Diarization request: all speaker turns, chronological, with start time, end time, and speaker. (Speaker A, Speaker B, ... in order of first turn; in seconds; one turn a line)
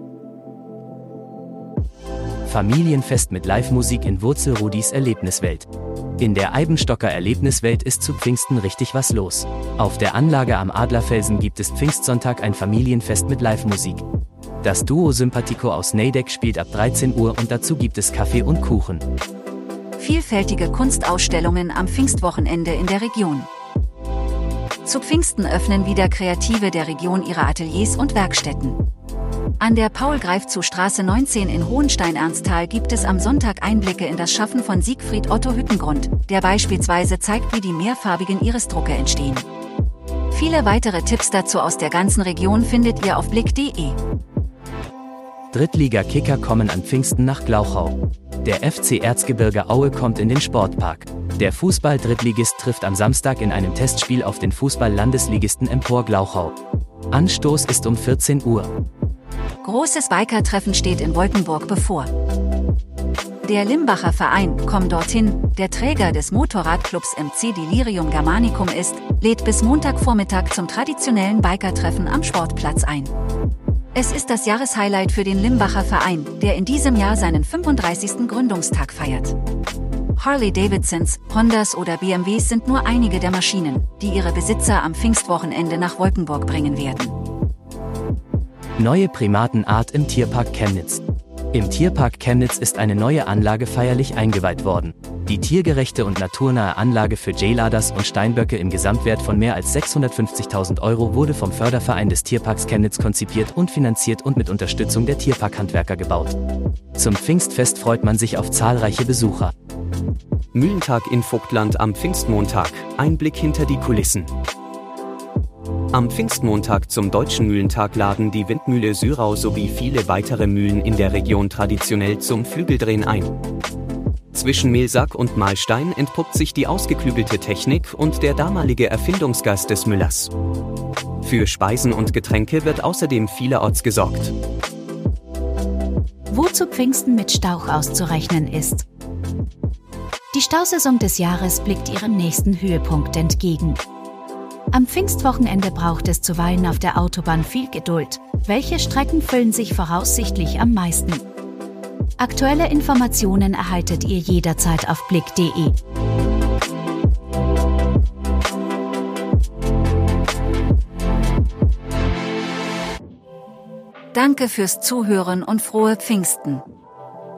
Speaker A: 2.5-5.7
Speaker A: 6.2-14.0
Speaker A: 14.6-19.1
Speaker B: 20.0-23.5
Speaker B: 24.8-28.8
Speaker B: 29.6-39.5
Speaker B: 40.3-44.0
Speaker A: 45.5-56.5
Speaker A: 57.1-58.7
Speaker B: 59.6-62.1
Speaker B: 63.4-73.1
Speaker B: 73.9-79.4
Speaker B: 80.2-87.2
Speaker A: 88.8-91.0
Speaker A: 91.5-106.4
Speaker A: 106.9-109.5
Speaker C: 110.5-114.3
Speaker C: 115.9-123.4
Speaker C: 124.3-130.3
Speaker C: 131.2-134.3
Speaker D: 136.3-138.8
Speaker D: 140.3-143.8
Speaker D: 144.7-151.2
Speaker D: 152.2-155.8
Speaker B: 164.1-166.6